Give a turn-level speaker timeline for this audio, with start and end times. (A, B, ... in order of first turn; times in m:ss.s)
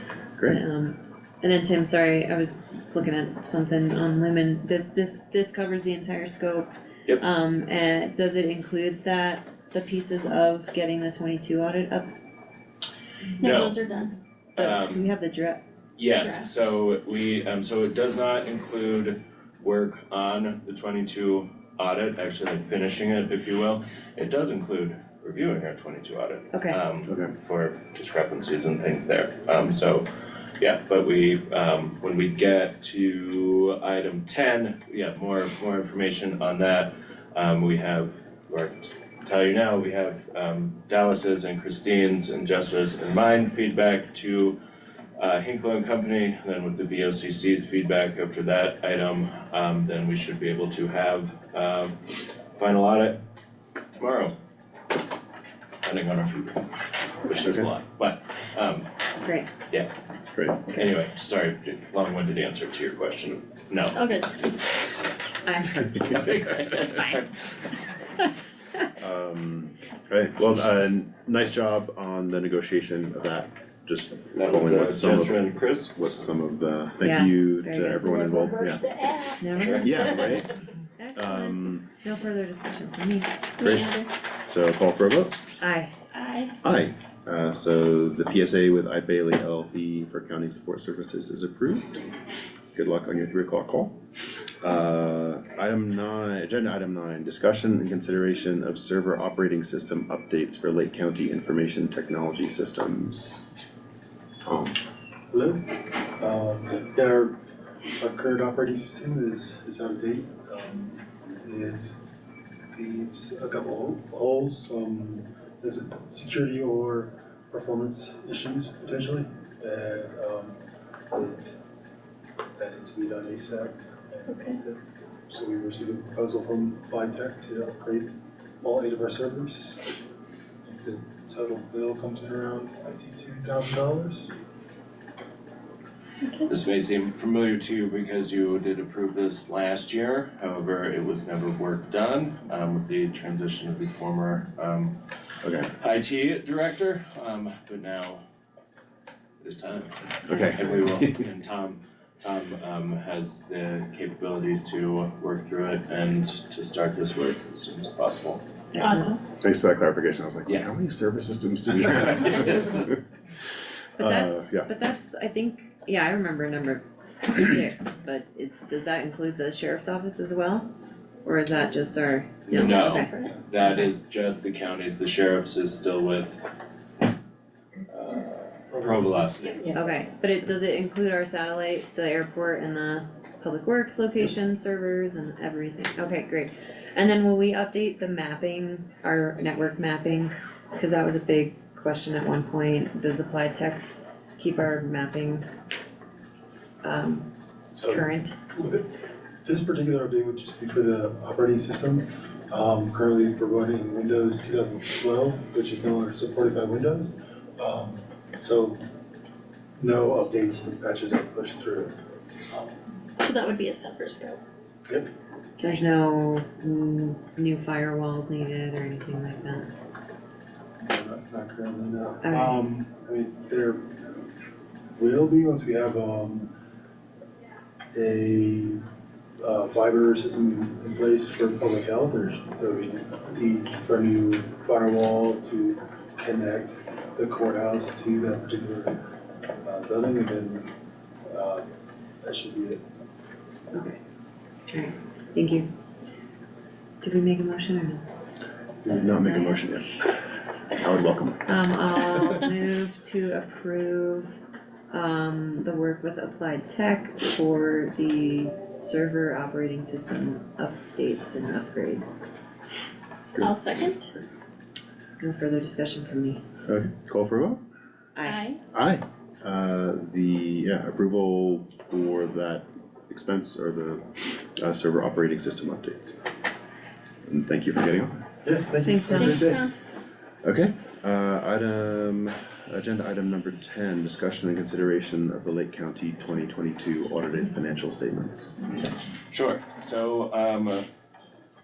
0:00.5-0:12.1 A
0:13.4-0:14.2 B
0:13.4-0:13.7 C
0:14.6-0:15.0 C
0:14.6-0:15.6 A
0:16.0-0:30.0 C
0:16.2-0:16.5 B
0:26.5-0:26.8 A
0:30.6-0:44.6 C
0:45.2-0:53.2 C
0:53.9-0:54.3 C
0:55.8-0:58.9 C
0:57.3-0:57.7 D
0:59.2-0:59.5 A
1:00.3-1:00.7 D
1:00.7-1:04.6 C
1:03.9-1:04.5 B
1:05.4-1:06.1 A
1:05.8-1:07.4 C
1:06.8-1:07.2 A
1:09.0-1:18.8 D
1:14.3-1:15.9 C
1:17.0-1:18.1 A
1:18.0-1:20.3 B
1:19.4-1:23.3 A
1:19.8-1:20.5 D
1:21.2-1:21.8 D
1:23.6-1:24.1 B
1:23.6-1:25.4 D
1:25.6-1:25.9 A
1:26.1-1:26.6 B
1:26.6-1:32.1 D
1:32.7-1:34.0 D
1:34.6-1:43.5 D
1:44.4-1:44.8 D
1:45.3-1:47.4 E
1:48.0-1:51.9 E
1:52.7-2:00.6 E
2:01.1-2:01.5 E
2:02.6-2:08.1 E
2:04.3-2:04.6 B
2:08.6-2:09.8 E
2:10.6-2:14.3 E
2:16.2-2:16.5 B
2:16.5-2:25.0 C
2:25.4-2:25.7 D
2:25.8-2:28.2 C
2:29.4-2:38.4 C
2:30.2-2:31.2 D
2:38.7-2:39.2 A
2:38.8-2:39.2 B
2:39.4-2:43.0 D
2:41.7-2:42.9 C
2:44.0-2:44.7 D
2:44.0-2:50.7 A
2:51.2-2:53.9 A
2:52.5-2:56.4 C
2:52.5-2:53.4 B
2:57.9-2:59.7 C
2:58.7-2:59.4 E
2:59.5-2:59.8 B
2:59.7-3:13.8 A
3:14.4-3:15.4 A
3:16.8-3:17.2 A
3:17.7-3:18.9 E
3:17.9-3:18.3 A
3:19.4-3:28.8 E
3:29.8-3:32.0 E
3:33.2-3:34.4 B
3:35.6-3:39.7 A
3:40.8-3:43.8 E
3:42.2-3:42.6 A
3:45.0-3:46.5 E
3:47.9-3:48.8 E
3:49.4-3:59.0 E
3:59.6-4:00.7 E
4:01.2-4:01.7 E
4:02.2-4:02.8 E
4:03.7-4:04.0 A
4:04.7-4:05.7 A
4:07.0-4:08.0 A
4:08.8-4:10.2 D
4:09.2-4:09.5 A
4:10.7-4:11.4 D
4:11.4-4:14.4 A
4:14.9-4:22.2 A
4:23.2-4:24.0 B
4:25.2-4:26.4 A
4:26.6-4:27.6 D
4:28.2-4:28.4 A
4:28.2-4:28.6 B
4:28.7-4:36.2 D
4:37.2-4:38.2 D
4:38.4-4:39.7 E
4:38.8-4:39.4 A
4:39.1-4:39.7 B
4:40.4-4:48.6 D
4:49.3-4:50.8 C